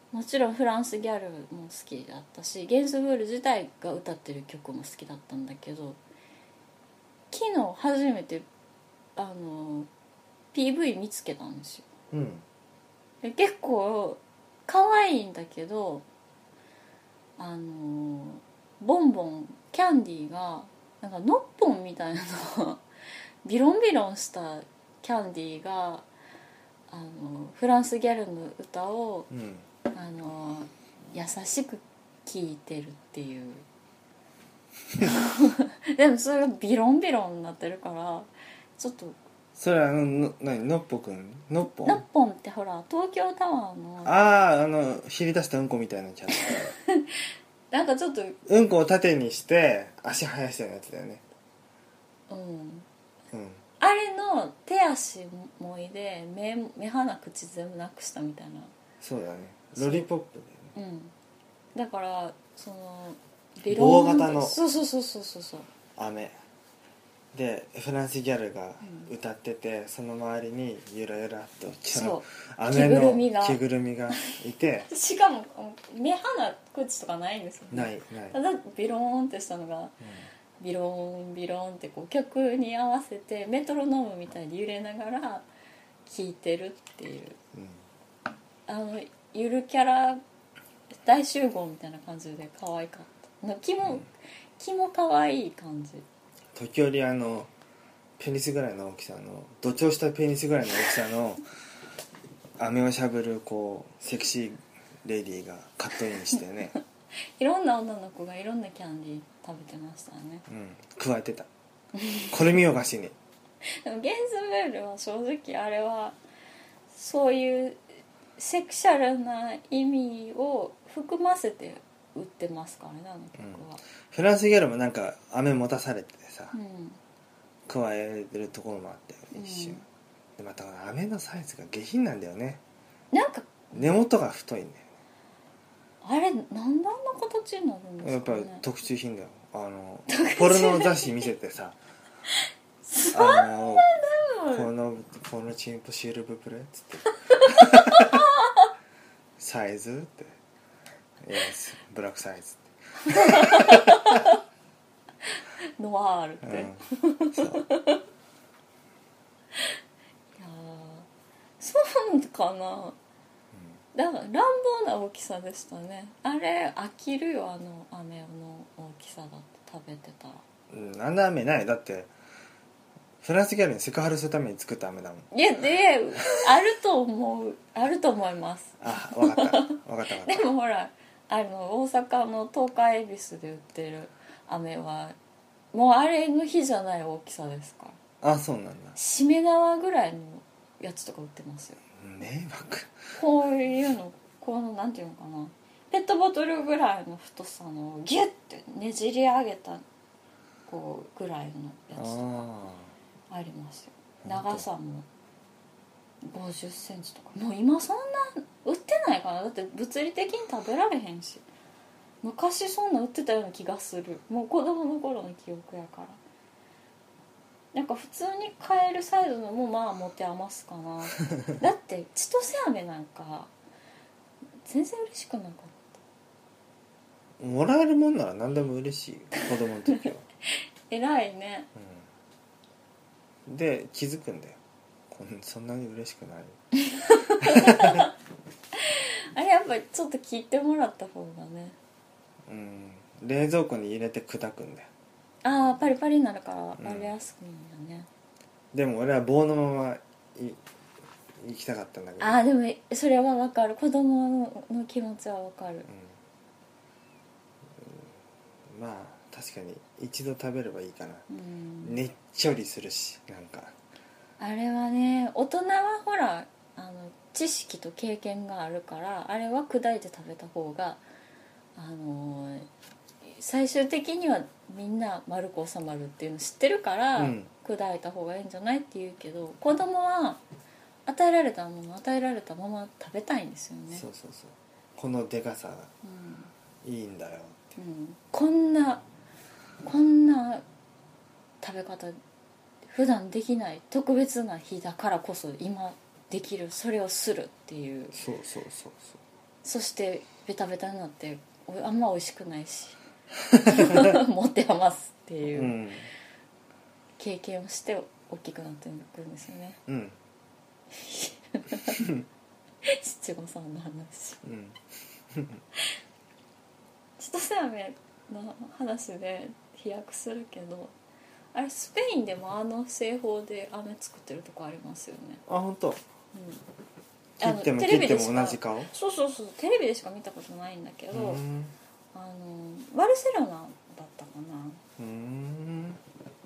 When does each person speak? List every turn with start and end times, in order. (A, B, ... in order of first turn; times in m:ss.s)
0:00.1-0:06.0 A
0:07.3-0:08.4 A
0:09.2-0:09.9 A
0:10.5-0:11.9 A
0:12.1-0:12.4 B
0:13.2-0:16.0 A
0:17.4-0:22.8 A
0:23.4-0:26.0 A
0:26.9-0:29.3 A
0:29.3-0:29.6 B
0:29.9-0:33.6 A
0:35.0-0:39.2 A
0:39.6-0:42.0 B
0:41.8-0:44.2 A
0:44.0-0:46.7 B
0:46.4-0:48.4 A
0:48.4-0:51.2 B
0:52.3-0:52.8 A
0:53.3-0:53.6 B
0:53.8-0:58.7 A
0:59.0-1:00.7 B
0:59.8-1:00.1 A
1:00.7-1:01.1 A
1:01.7-1:05.7 A
1:03.7-1:04.6 B
1:06.0-1:06.3 B
1:07.3-1:14.9 B
1:08.8-1:09.1 A
1:11.9-1:13.6 A
1:14.9-1:20.0 A
1:17.7-1:18.4 B
1:20.0-1:20.3 B
1:20.6-1:25.4 A
1:26.0-1:27.4 A
1:27.5-1:27.8 B
1:28.7-1:30.2 A
1:31.0-1:36.0 A
1:36.5-1:37.5 B
1:38.2-1:41.4 B
1:42.6-1:46.7 B
1:47.4-1:50.4 A
1:50.5-1:51.5 B
1:52.0-1:52.4 A
1:52.3-1:53.2 B
1:53.7-1:56.2 A
1:56.9-1:57.8 A
1:58.4-2:03.8 A
2:03.4-2:06.5 B
2:06.5-2:07.0 A
2:07.7-2:09.8 B
2:09.3-2:09.8 A
2:10.4-2:12.6 B
2:13.1-2:13.8 A
2:13.7-2:14.8 B
2:16.0-2:18.6 A
2:18.0-2:21.8 B
2:20.1-2:21.2 A
2:22.3-2:24.7 A
2:23.1-2:23.9 B
2:24.5-2:28.3 B
2:27.2-2:28.7 A
2:29.4-2:30.3 B
2:31.2-2:34.2 B
2:33.0-2:34.4 A
2:35.2-2:38.0 A
2:36.4-2:36.8 B
2:37.3-2:37.6 B
2:40.4-2:41.1 A
2:41.6-2:43.0 A
2:43.9-2:50.4 A
2:50.7-2:52.1 B
2:53.2-2:55.3 B
2:55.3-3:05.2 A
2:58.8-3:00.4 B
3:05.7-3:08.0 A
3:08.2-3:09.0 B
3:09.0-3:11.8 A
3:12.0-3:12.9 B
3:13.1-3:19.8 A
3:20.7-3:22.4 A
3:21.9-3:22.9 B
3:23.3-3:25.1 A
3:24.2-3:24.6 B
3:26.2-3:31.4 A
3:32.2-3:36.2 A
3:37.7-3:43.5 A
3:44.6-3:45.9 A
3:47.4-3:50.2 B
3:50.9-3:51.7 A
3:51.8-3:52.0 B
3:53.4-3:54.6 B
3:55.1-3:56.6 B
3:56.8-3:58.1 A
3:57.4-3:58.1 B
3:58.7-4:01.8 A
4:02.4-4:04.9 B
4:05.4-4:08.1 A
4:06.8-4:07.1 B
4:08.7-4:10.6 B
4:11.4-4:12.4 B
4:12.2-4:15.9 A
4:15.9-4:16.1 B
4:17.8-4:18.1 B
4:18.7-4:21.2 B
4:21.3-4:22.0 A
4:21.8-4:23.7 B
4:24.4-4:31.0 A
4:31.8-4:32.7 A
4:33.2-4:40.4 A
4:37.2-4:37.5 B
4:41.1-4:44.0 A
4:43.9-4:45.9 B
4:46.0-4:46.5 A
4:46.8-4:47.7 B
4:47.8-4:49.0 A
4:49.8-4:50.6 A
4:51.6-4:52.2 A
4:52.8-4:58.2 A
4:58.1-4:59.2 B
4:59.6-5:03.0 A
5:03.5-5:04.2 B
5:03.6-5:05.8 A
5:05.5-5:06.1 B
5:07.2-5:09.8 A
5:09.9-5:10.2 B
5:10.9-5:12.1 A
5:12.8-5:14.4 A
5:14.4-5:14.8 B
5:15.3-5:15.6 B
5:17.2-5:20.9 A
5:21.5-5:25.4 A
5:25.5-5:26.0 B
5:26.3-5:26.6 A
5:27.4-5:28.9 B
5:27.4-5:31.4 A
5:31.1-5:31.7 B
5:32.1-5:34.8 A
5:35.0-5:36.0 B